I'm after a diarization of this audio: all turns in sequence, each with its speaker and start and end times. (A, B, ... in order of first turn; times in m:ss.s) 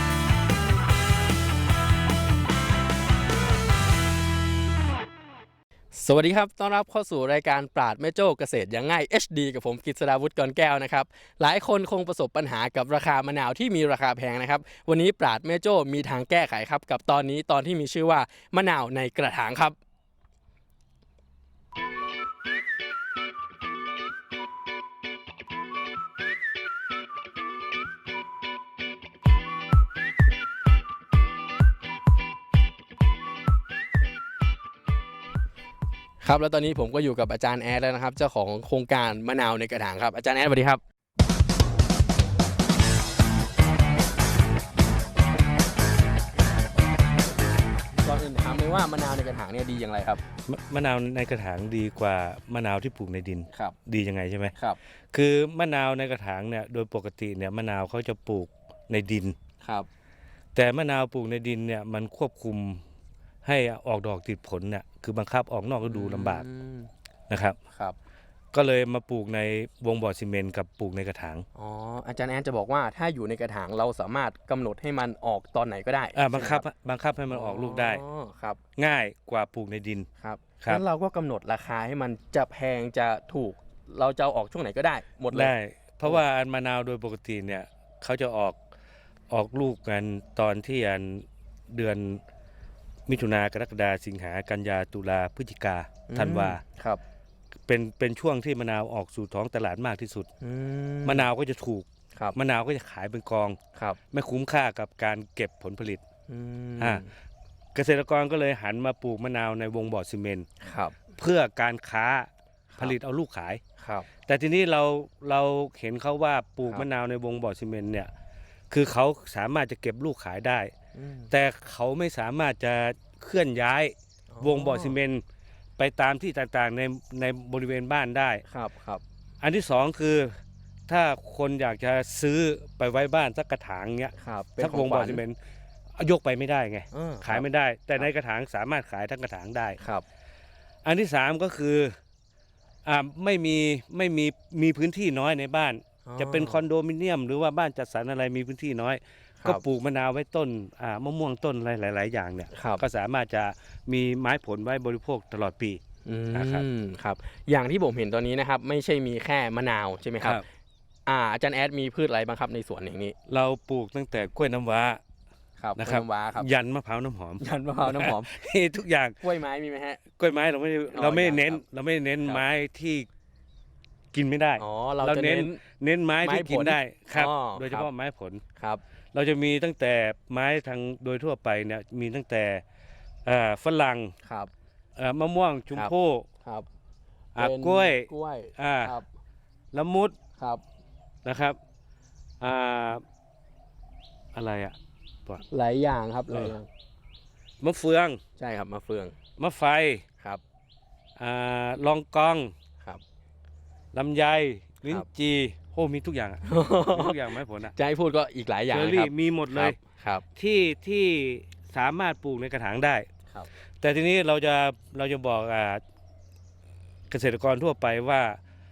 0:05.9-0:19.8 A
0:36.2-0:40.8 A
0:48.0-0:50.2 A
0:50.5-0:54.5 B
0:55.1-0:59.3 B
0:59.6-0:59.9 A
1:00.5-1:02.8 B
1:03.4-1:06.4 B
1:05.9-1:06.9 A
1:07.3-1:07.6 B
1:08.5-1:11.4 B
1:11.5-1:16.6 A
1:16.1-1:18.0 B
1:17.3-1:18.6 A
1:18.8-1:20.1 B
1:20.2-1:25.5 A
1:25.3-1:28.5 B
1:29.3-1:32.2 B
1:33.1-1:36.6 B
1:36.1-1:37.0 A
1:37.7-1:40.3 B
1:40.4-1:41.3 A
1:41.0-1:43.6 B
1:44.1-1:46.0 B
1:46.3-1:47.1 A
1:47.8-1:50.5 B
1:50.6-1:51.0 A
1:51.2-1:53.6 B
1:53.8-1:54.1 A
1:54.2-1:58.1 B
1:58.7-2:00.7 B
2:00.9-2:01.3 A
2:01.3-2:05.2 B
2:04.3-2:05.0 A
2:05.8-2:08.4 B
2:08.5-2:09.0 A
2:09.4-2:10.4 B
2:10.9-2:15.4 B
2:14.2-2:15.2 A
2:16.0-2:19.8 B
2:16.9-2:17.4 A
2:20.8-2:22.0 B
2:22.8-2:35.8 B
2:26.1-2:26.6 A
2:32.5-2:32.8 A
2:36.1-2:40.4 A
2:36.3-2:36.6 B
2:41.1-2:43.2 A
2:43.3-2:45.0 B
2:45.6-2:46.5 A
2:45.8-2:49.2 B
2:47.4-2:48.3 A
2:49.2-2:50.0 A
2:50.2-2:53.1 B
2:50.9-2:51.6 A
2:54.1-2:58.4 B
2:54.6-2:55.6 A
2:56.2-2:57.9 A
2:59.1-3:02.6 B
3:03.2-3:04.1 B
3:04.2-3:04.5 A
3:05.0-3:06.2 B
3:07.4-3:09.0 B
3:07.4-3:09.0 A
3:09.7-3:10.1 B
3:11.2-3:11.6 B
3:12.4-3:13.0 B
3:14.3-3:14.7 B
3:15.5-3:16.7 A
3:17.6-3:18.2 B
3:18.4-3:19.2 A
3:19.4-3:20.0 B
3:21.2-3:22.5 B
3:23.9-3:27.7 B
3:26.5-3:27.2 A
3:27.8-3:30.2 A
3:28.7-3:29.8 B
3:30.4-3:33.0 B
3:33.8-3:35.8 B
3:37.1-3:38.4 B